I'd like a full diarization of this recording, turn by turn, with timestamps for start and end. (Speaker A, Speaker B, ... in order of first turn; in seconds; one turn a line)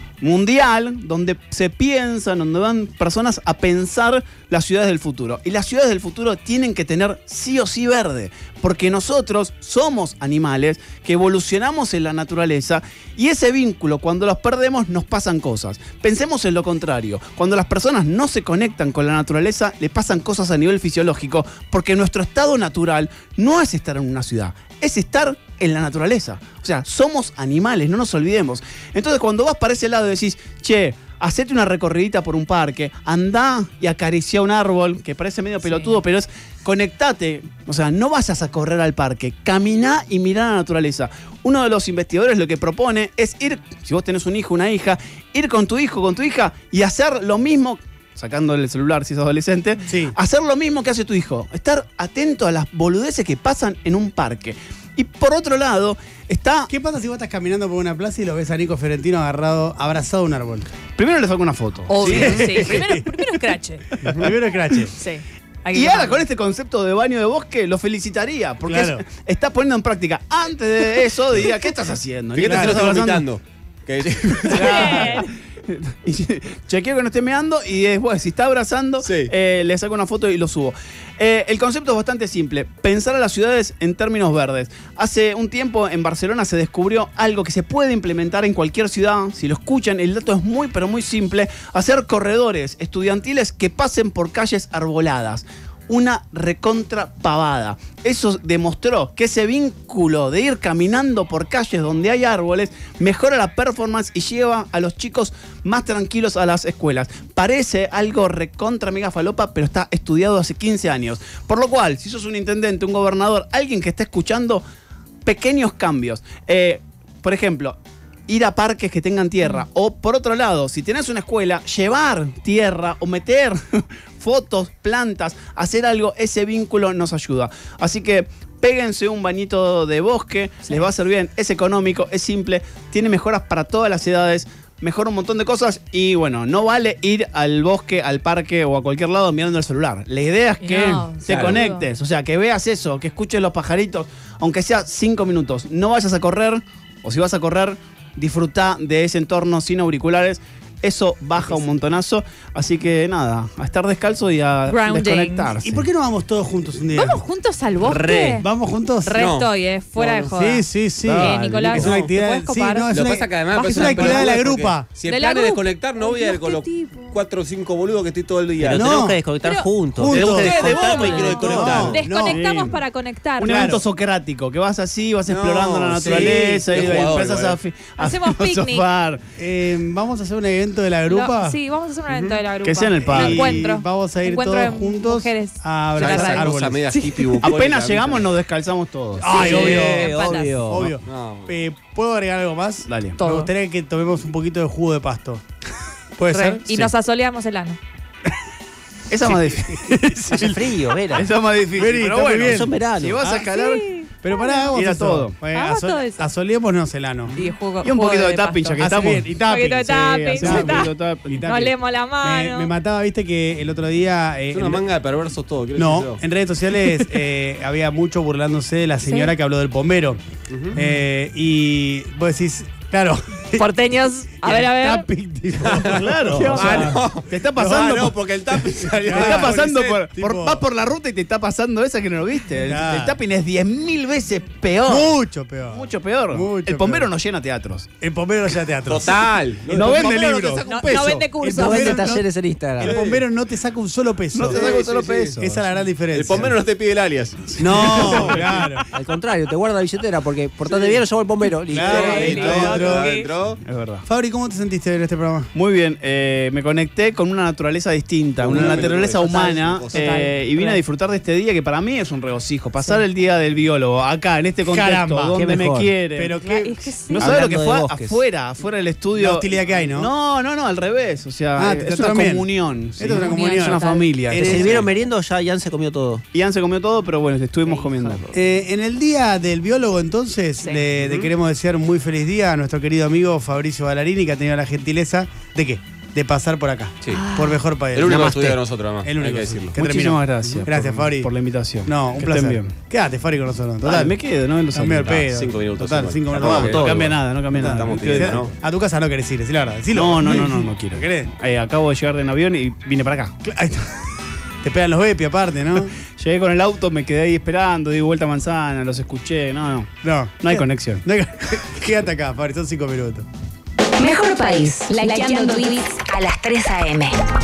Speaker A: 0.2-56.7
Speaker B: 49.9-50.1
Speaker B: 56.7-60.7
Speaker A: 61.0-62.8
Speaker C: 61.9-63.9
Speaker B: 62.1-63.1
Speaker B: 64.0-64.9
Speaker C: 64.9-66.2
Speaker A: 65.7-73.2
Speaker B: 68.7-69.0
Speaker D: 72.3-74.7
Speaker B: 72.5-72.8
Speaker A: 74.4-114.6
Speaker C: 74.5-75.3
Speaker D: 79.0-79.3
Speaker A: 115.2-155.8
Speaker C: 140.6-141.8
Speaker D: 141.3-141.6
Speaker C: 154.7-155.5
Speaker B: 155.6-157.2
Speaker C: 156.9-158.5
Speaker E: 157.8-158.4
Speaker B: 158.4-159.2
Speaker C: 159.0-162.9
Speaker D: 159.2-160.4
Speaker B: 160.3-164.9
Speaker E: 161.1-161.4
Speaker D: 161.2-162.1
Speaker D: 162.9-168.9
Speaker C: 163.5-164.3
Speaker C: 165.0-167.2
Speaker E: 168.6-172.0
Speaker B: 168.6-169.2
Speaker C: 169.4-173.7
Speaker B: 169.9-170.8
Speaker D: 170.1-172.0
Speaker B: 171.3-172.6
Speaker A: 172.3-172.8
Speaker A: 173.4-179.2
Speaker B: 173.4-173.8
Speaker D: 175.3-177.6
Speaker B: 176.1-177.0
Speaker C: 178.0-178.9
Speaker B: 179.4-181.6
Speaker C: 181.1-187.5
Speaker D: 182.1-182.4
Speaker A: 182.6-183.6
Speaker B: 183.1-186.9
Speaker D: 186.0-188.3
Speaker A: 187.4-189.3
Speaker B: 189.2-195.4
Speaker C: 189.3-190.6
Speaker E: 189.3-190.9
Speaker D: 191.1-191.5
Speaker A: 192.9-193.2
Speaker C: 193.2-193.5
Speaker B: 196.2-196.6
Speaker C: 196.3-197.8
Speaker A: 199.1-200.6
Speaker B: 199.3-200.5
Speaker E: 200.4-201.2
Speaker A: 201.1-203.9
Speaker B: 201.8-203.4
Speaker E: 202.4-203.2
Speaker C: 203.3-204.7
Speaker B: 204.2-207.4
Speaker A: 204.7-205.4
Speaker C: 205.5-206.2
Speaker A: 207.3-209.3
Speaker C: 207.4-208.8
Speaker B: 208.8-214.8
Speaker C: 209.4-210.9
Speaker A: 209.8-211.5
Speaker C: 211.4-212.7
Speaker D: 214.5-216.2
Speaker B: 215.8-220.2
Speaker C: 219.1-219.3
Speaker D: 220.5-220.8
Speaker B: 220.7-223.7
Speaker C: 223.6-225.1
Speaker B: 224.4-227.0
Speaker A: 225.8-228.2
Speaker C: 226.3-226.9
Speaker D: 226.4-230.0
Speaker B: 227.6-228.1
Speaker B: 228.7-230.6
Speaker A: 229.1-237.9
Speaker B: 232.7-233.2
Speaker B: 234.9-237.1
Speaker B: 238.0-239.2
Speaker D: 238.9-241.3
Speaker A: 239.7-240.7
Speaker B: 239.8-240.2
Speaker E: 239.8-240.1
Speaker C: 240.6-242.1
Speaker B: 241.4-242.3
Speaker E: 241.4-243.0
Speaker B: 242.8-244.6
Speaker D: 242.8-243.2
Speaker A: 244.3-245.6
Speaker D: 244.5-245.4
Speaker B: 245.4-246.6
Speaker D: 246.1-248.6
Speaker B: 247.6-248.9
Speaker A: 247.9-248.3
Speaker E: 248.9-252.6
Speaker D: 250.7-251.0
Speaker B: 251.7-253.2
Speaker D: 251.7-253.6
Speaker C: 251.8-253.3
Speaker A: 253.6-254.1
Speaker B: 254.1-255.5
Speaker A: 255.5-266.4
Speaker D: 258.4-260.2
Speaker C: 258.5-260.8
Speaker B: 264.7-265.4
Speaker E: 265.3-265.9
Speaker B: 266.2-267.0
Speaker C: 266.4-267.3
Speaker A: 267.1-274.8
Speaker E: 267.2-268.2
Speaker B: 269.2-270.1
Speaker B: 271.6-274.9
Speaker C: 273.1-274.1
Speaker E: 274.3-276.2
Speaker A: 276.3-278.4
Speaker E: 277.7-278.2
Speaker B: 278.3-291.3
Speaker C: 280.6-280.9
Speaker D: 281.0-281.3
Speaker C: 287.1-287.6
Speaker D: 287.9-289.7
Speaker A: 289.8-292.7
Speaker B: 291.9-294.1
Speaker A: 293.8-295.2
Speaker B: 294.7-296.9
Speaker D: 295.1-298.5
Speaker E: 296.3-297.1
Speaker A: 296.4-298.4
Speaker B: 297.6-301.3
Speaker A: 299.9-303.3
Speaker B: 303.4-304.0
Speaker B: 304.6-305.9
Speaker A: 306.2-311.0
Speaker B: 310.0-313.3
Speaker F: 314.0-317.1